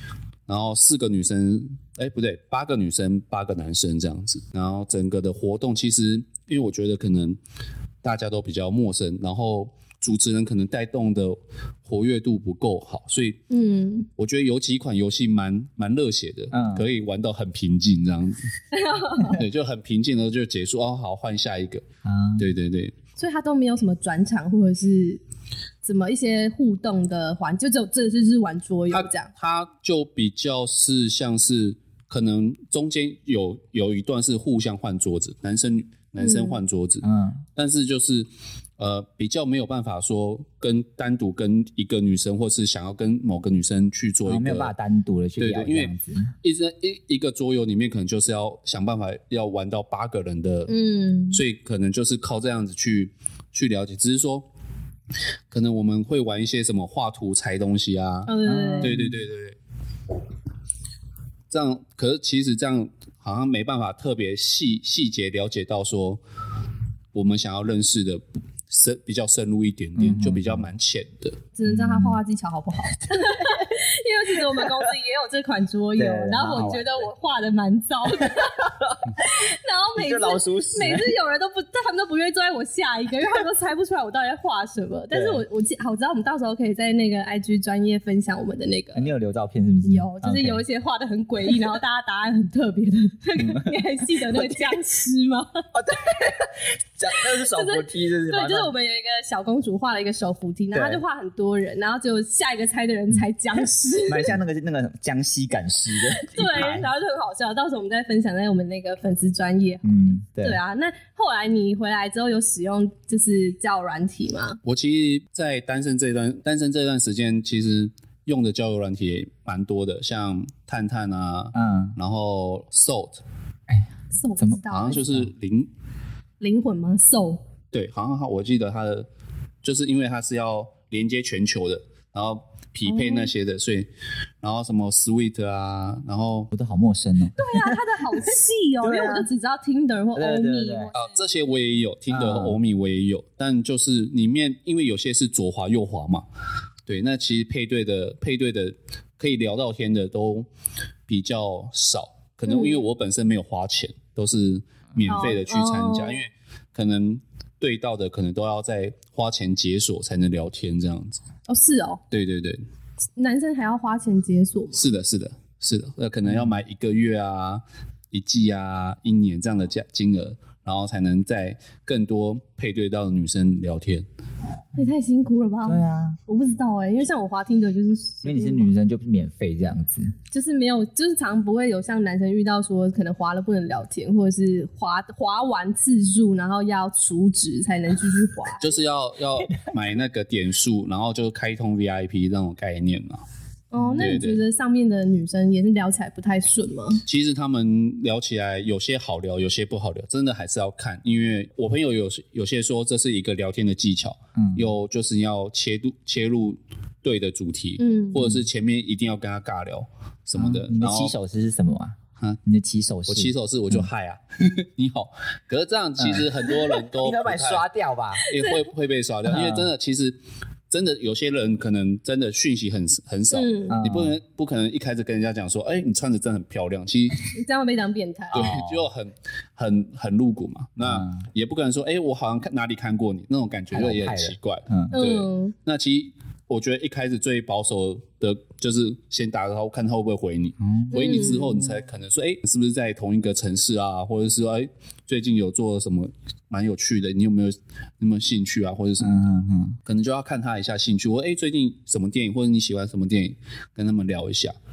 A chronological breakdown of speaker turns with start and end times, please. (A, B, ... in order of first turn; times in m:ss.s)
0:00.5-0:07.4 A
0:08.0-0:13.4 A
0:13.5-0:14.1 B
0:14.2-0:18.5 A
0:16.5-0:16.9 C
0:18.7-0:19.4 B
0:19.3-0:21.8 A
0:22.0-0:22.5 C
0:22.4-0:22.9 A
0:23.2-0:25.2 B
0:25.8-0:29.3 B
0:28.9-0:37.0 A
0:36.2-0:36.6 B
0:37.0-0:37.4 C
0:37.6-0:44.7 A
0:44.2-0:46.3 C
0:45.4-0:45.9 A
0:46.4-0:50.7 A
0:50.7-0:51.4 B
0:51.3-0:54.4 A
0:55.5-0:59.6 A
0:58.2-0:59.0 B
0:58.5-0:59.2 C
1:01.5-1:06.2 A
1:07.1-1:11.4 A
1:10.0-1:10.6 C
1:11.6-1:29.1 B
1:11.7-1:12.2 C
1:16.0-1:17.0 C
1:18.2-1:19.2 C
1:19.9-1:21.1 C
1:25.1-1:25.4 C
1:28.9-1:30.6 C
1:29.8-1:35.6 B
1:33.4-1:34.6 C
1:35.7-1:38.7 C
1:37.5-1:44.4 B
1:40.7-1:41.0 C
1:44.1-1:46.9 C
1:46.1-1:54.6 B
1:49.8-1:50.6 C
1:54.6-2:03.2 A
2:01.5-2:02.0 C
2:03.7-2:05.3 C
2:04.1-2:05.0 B
2:04.7-2:05.7 A
2:06.4-2:07.4 B
2:07.7-2:09.1 A
2:09.6-2:13.9 A
2:12.8-2:13.3 B
2:14.4-2:16.5 A
2:16.5-2:17.8 C
2:17.4-2:21.1 B
2:18.8-2:19.3 C
2:20.2-2:20.9 C
2:20.9-2:26.2 A
2:22.1-2:22.6 C
2:26.9-2:30.5 A
2:31.1-2:41.2 A
2:32.5-2:32.8 B
2:35.1-2:36.3 B
2:41.5-2:42.0 B
2:42.1-2:42.6 A
2:43.2-2:44.8 B
2:44.7-2:54.0 A
2:46.2-2:46.5 C
2:54.7-2:58.7 B
2:55.6-2:56.2 C
2:58.2-3:00.1 C
3:00.3-3:08.7 B
3:08.6-3:13.2 A
3:09.4-3:09.8 C
3:13.7-3:17.0 B
3:13.8-3:14.2 C
3:14.0-3:14.4 A
3:17.0-3:31.1 A
3:24.4-3:24.7 C
3:27.8-3:28.2 B
3:30.4-3:33.9 C
3:33.1-3:37.6 A
3:36.0-3:38.3 C
3:38.2-3:40.2 A
3:39.2-3:39.7 C
3:40.7-3:47.2 A
3:43.3-3:43.8 B
3:43.7-3:44.2 C
3:47.3-3:48.5 B
3:48.3-3:48.9 C
3:48.3-4:09.3 A
3:50.8-3:51.3 C
3:53.7-3:55.0 C
3:54.9-3:55.5 B
4:00.6-4:01.7 C
4:00.9-4:01.5 B
4:09.0-4:09.8 C
4:09.8-4:14.6 A